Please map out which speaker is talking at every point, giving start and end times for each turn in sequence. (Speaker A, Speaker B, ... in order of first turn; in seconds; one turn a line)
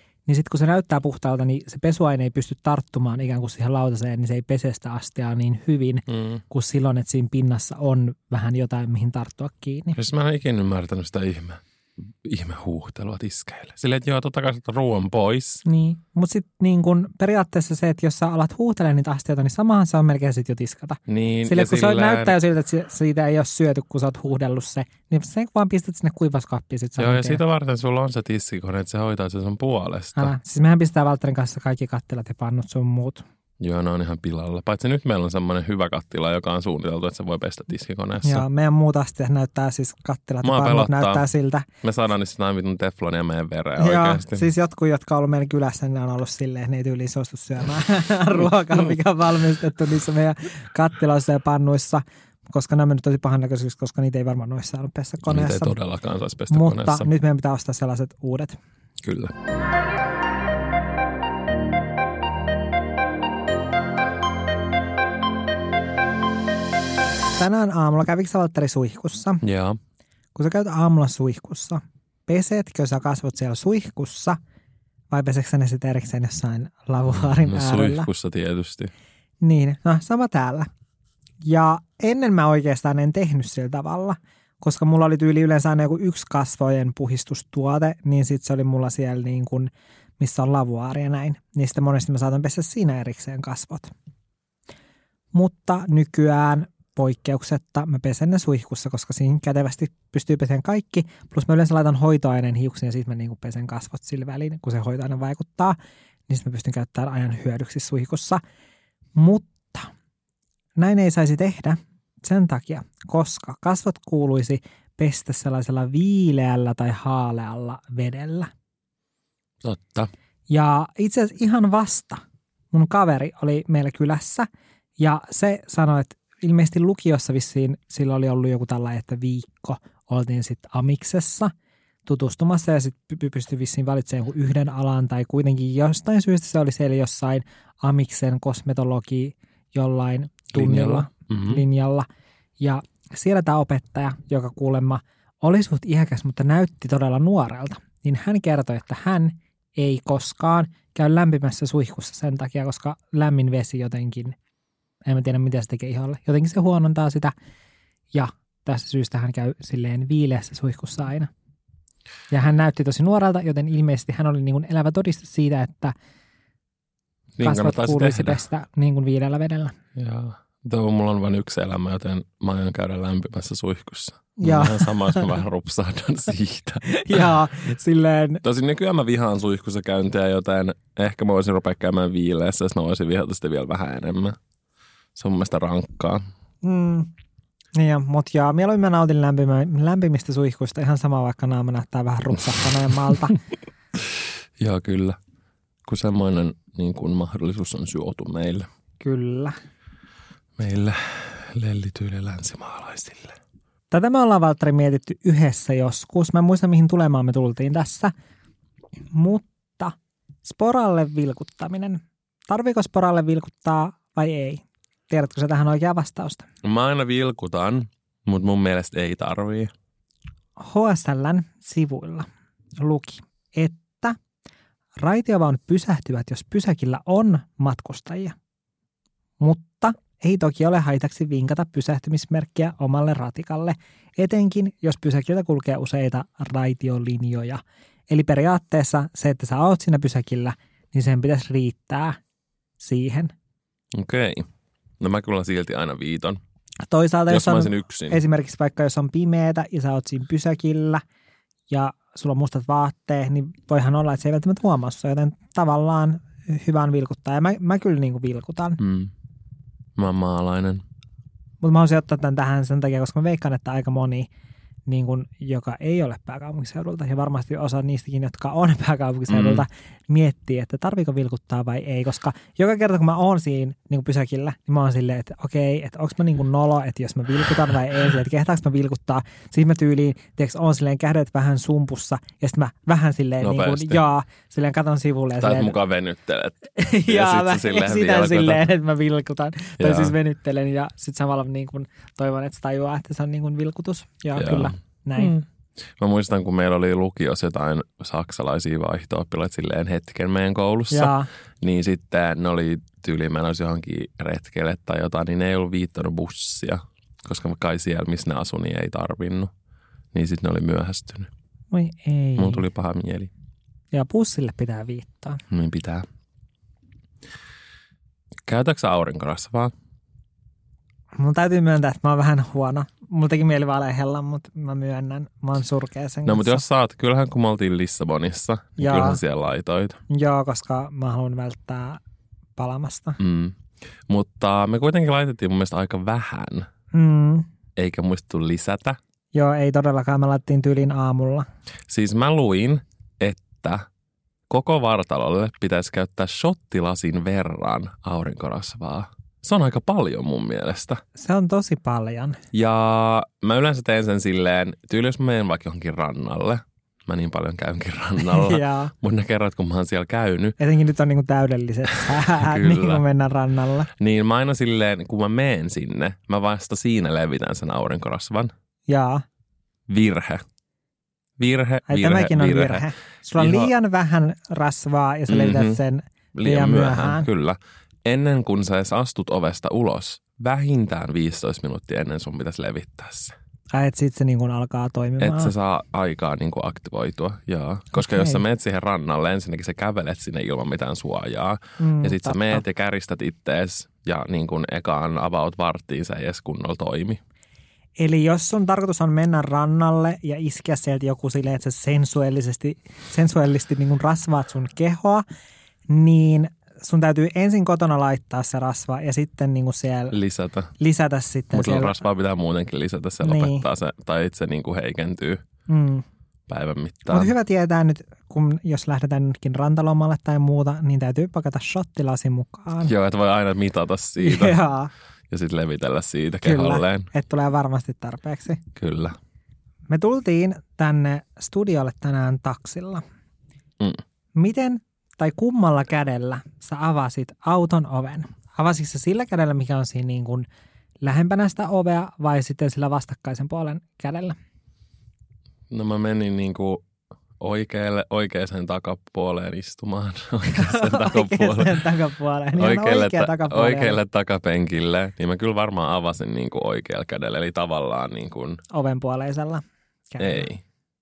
Speaker A: 0.3-10.0
Speaker B: 6.1-6.4
Speaker B: 9.9-11.6
Speaker B: 12.2-15.6
Speaker A: 15.7-27.4
Speaker B: 21.1-22.4
Speaker B: 27.0-30.3
Speaker A: 30.2-33.2
Speaker B: 33.6-38.5
Speaker A: 38.2-41.7
Speaker B: 40.4-41.3
Speaker B: 41.8-44.5
Speaker A: 43.8-55.8
Speaker B: 55.2-57.1
Speaker A: 56.5-58.6
Speaker B: 59.0-59.3
Speaker A: 67.4-69.4
Speaker B: 69.4-69.8
Speaker A: 70.3-74.4
Speaker A: 75.1-78.1
Speaker B: 77.1-78.9
Speaker A: 79.4-80.7
Speaker A: 81.4-93.9
Speaker A: 95.3-105.8
Speaker A: 106.3-108.4
Speaker A: 109.2-109.9
Speaker A: 110.8-118.5
Speaker B: 119.6-120.1
Speaker A: 120.5-124.5
Speaker A: 125.0-131.5
Speaker A: 132.1-142.1
Speaker B: 140.5-141.6
Speaker A: 142.6-154.4
Speaker A: 155.1-157.3
Speaker A: 158.1-161.3
Speaker A: 162.3-165.9
Speaker B: 167.4-168.4
Speaker A: 167.4-169.8
Speaker B: 169.9-177.3
Speaker A: 174.4-175.4
Speaker A: 176.8-178.4
Speaker B: 178.4-184.4
Speaker B: 185.2-186.2
Speaker A: 186.6-187.1
Speaker A: 187.7-193.4
Speaker B: 194.6-195.2
Speaker B: 195.8-198.7
Speaker A: 199.0-199.6
Speaker B: 200.6-203.3
Speaker A: 203.9-208.1
Speaker A: 209.1-216.5
Speaker B: 216.6-219.7
Speaker A: 220.6-222.3
Speaker A: 222.8-224.2
Speaker A: 225.0-228.3
Speaker A: 229.4-242.2
Speaker A: 242.8-243.3
Speaker B: 243.9-244.4
Speaker B: 245.0-246.4
Speaker A: 246.8-251.0
Speaker B: 247.3-248.2
Speaker A: 251.7-258.8
Speaker B: 258.8-259.1
Speaker B: 260.0-260.8
Speaker A: 261.6-264.3
Speaker A: 264.9-285.8
Speaker B: 269.3-269.7
Speaker B: 283.4-284.0
Speaker B: 285.4-288.7
Speaker A: 286.8-295.4
Speaker B: 289.8-290.1
Speaker B: 294.4-295.4
Speaker B: 296.0-309.5
Speaker A: 300.9-301.3
Speaker B: 310.1-311.3
Speaker A: 311.7-312.7
Speaker B: 312.4-313.3
Speaker A: 313.9-315.4
Speaker B: 315.5-316.1
Speaker B: 318.5-319.7
Speaker A: 321.2-326.6
Speaker B: 326.3-330.0
Speaker A: 328.8-329.2
Speaker A: 330.1-332.0
Speaker A: 332.6-333.2
Speaker B: 333.2-336.7
Speaker A: 336.9-337.5
Speaker B: 337.8-339.0
Speaker A: 339.3-341.5
Speaker B: 341.9-343.9
Speaker B: 344.5-351.0
Speaker A: 351.2-352.4
Speaker B: 352.5-360.6
Speaker A: 358.2-358.9
Speaker A: 360.6-363.9
Speaker B: 362.0-363.0
Speaker B: 364.0-368.5
Speaker A: 368.9-369.2
Speaker B: 369.9-370.4
Speaker B: 371.4-373.7
Speaker A: 371.9-377.3
Speaker B: 375.3-375.8
Speaker B: 376.4-383.3
Speaker A: 383.7-385.5
Speaker B: 385.2-397.2
Speaker A: 387.9-388.4
Speaker A: 391.8-392.6
Speaker A: 398.0-405.2
Speaker A: 405.9-410.2
Speaker B: 410.1-410.7
Speaker A: 410.8-412.0
Speaker B: 411.5-415.4
Speaker A: 413.2-413.7
Speaker A: 415.7-416.1
Speaker B: 416.5-417.3
Speaker A: 417.1-422.9
Speaker B: 422.9-424.6
Speaker A: 424.2-424.9
Speaker B: 425.3-427.1
Speaker A: 426.4-428.6
Speaker B: 428.8-429.2
Speaker A: 429.9-433.0
Speaker A: 434.4-440.5
Speaker A: 441.0-444.4
Speaker B: 445.7-446.9
Speaker B: 447.4-451.8
Speaker A: 450.5-454.0
Speaker B: 452.6-458.6
Speaker A: 458.7-460.5
Speaker B: 460.2-460.6